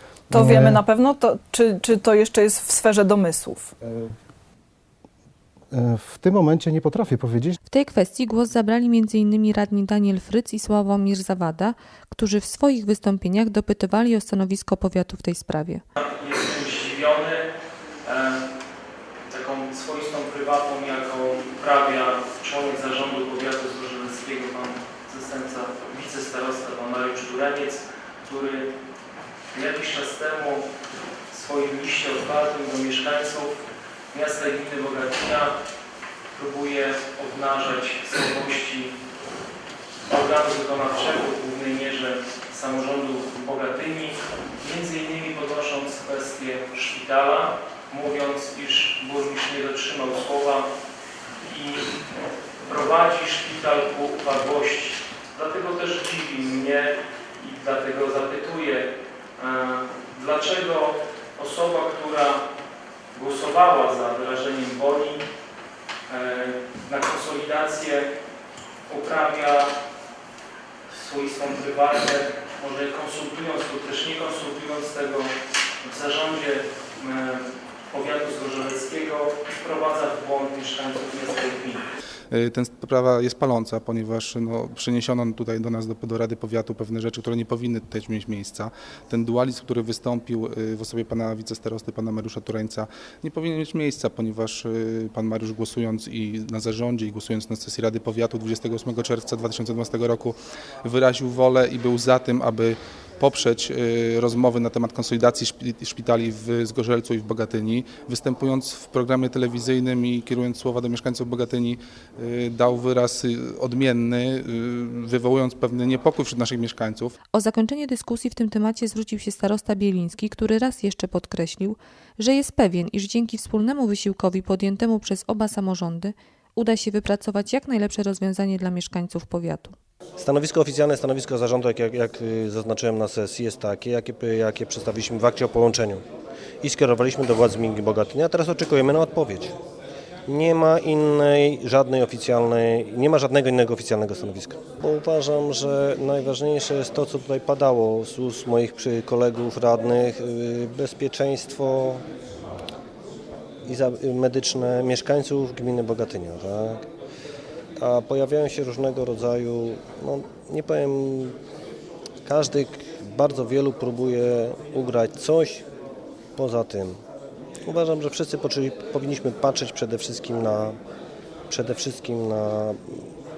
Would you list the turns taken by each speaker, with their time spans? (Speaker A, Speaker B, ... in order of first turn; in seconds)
Speaker A: 0.3-0.8, 5.7-7.6
Speaker B: 0.3-3.6
Speaker C: 7.7-15.8, 117.3-129.8
Speaker D: 16.0-17.5, 18.1-18.4, 19.3-28.7, 29.5-30.7, 31.3-33.6, 34.1-35.5, 36.3-38.9, 40.1-50.7, 51.4-51.9, 52.7-62.4, 63.1-65.2, 66.1-68.1, 68.9-69.7, 70.9-81.8
Speaker E: 82.3-117.1
Speaker F: 130.2-136.0, 136.6-139.6, 140.3-152.0, 153.7-156.8, 157.8-161.3, 162.2-165.7, 166.4-167.0, 167.7-170.8, 171.5-173.0